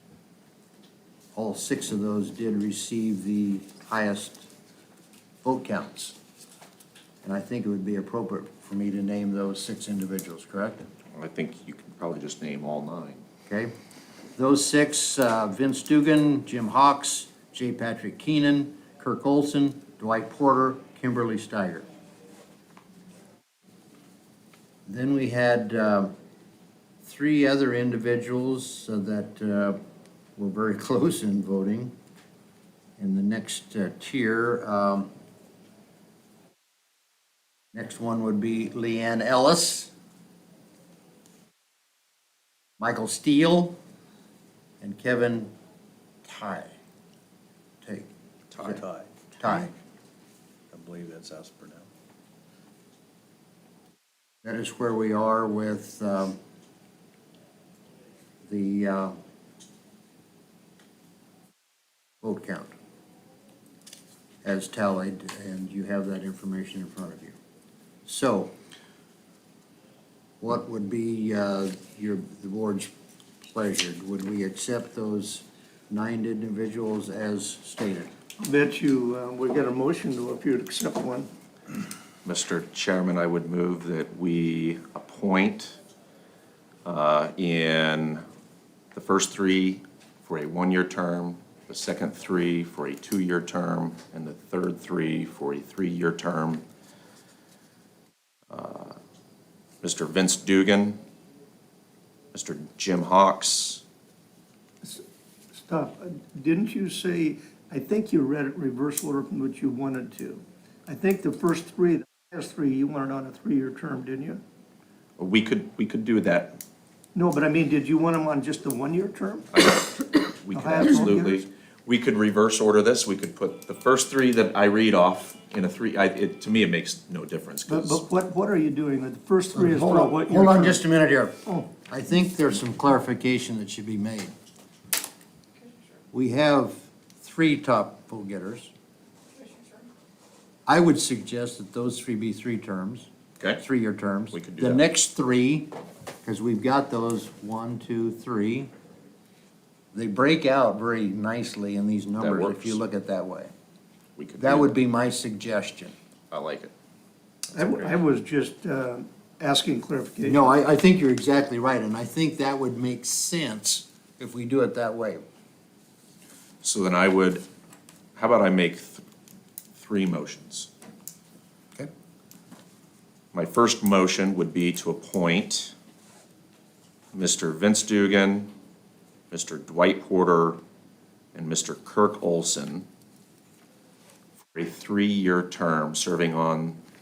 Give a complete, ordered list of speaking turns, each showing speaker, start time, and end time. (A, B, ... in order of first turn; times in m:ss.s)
0:01.3-0:04.5 A
0:05.4-0:06.2 A
0:07.2-0:10.9 A
0:11.2-0:13.2 B
0:14.4-0:21.9 A
0:24.9-0:26.1 A
0:27.0-0:29.8 A
0:30.4-0:31.9 A
0:33.0-0:35.1 A
0:37.7-0:39.9 A
0:42.8-0:43.8 A
0:44.8-0:45.5 A
0:46.2-0:46.7 A
0:47.8-0:48.8 A
0:48.6-0:49.5 C
0:49.4-0:49.7 A
0:50.7-0:51.9 C
0:54.4-0:56.4 A
0:58.5-0:59.2 A
1:02.2-1:02.7 A
1:04.4-1:07.4 A
1:08.1-1:08.5 A
1:10.4-1:12.9 A
1:13.4-1:18.1 A
1:18.4-1:21.3 D
1:22.2-1:25.8 B
1:26.8-1:28.2 B
1:28.9-1:36.6 B
1:38.5-1:39.0 B
1:39.8-1:41.0 B
1:42.3-1:43.8 B
1:44.8-1:54.4 D
1:55.2-1:56.6 B
1:57.2-1:59.5 D
1:59.5-2:08.0 B
2:00.5-2:01.4 D
2:07.7-2:10.8 D
2:09.5-2:14.3 A
2:11.4-2:11.7 D
2:16.1-2:18.7 A
2:20.7-2:25.7 A
2:24.3-2:24.9 B
2:26.2-2:28.7 A
2:29.9-2:33.5 A
2:32.2-2:32.8 B
2:34.2-2:34.7 B
2:34.4-2:35.9 A
2:36.3-2:36.7 B
2:37.5-2:40.5 D
2:37.6-2:38.0 B
2:40.2-2:45.2 A
2:46.6-2:47.4 B
2:48.2-2:49.0 B
2:49.8-2:50.7 B
2:53.3-2:55.7 B
2:57.1-2:58.5 B
2:59.3-3:00.6 B
3:01.3-3:02.9 B
3:04.5-3:06.8 B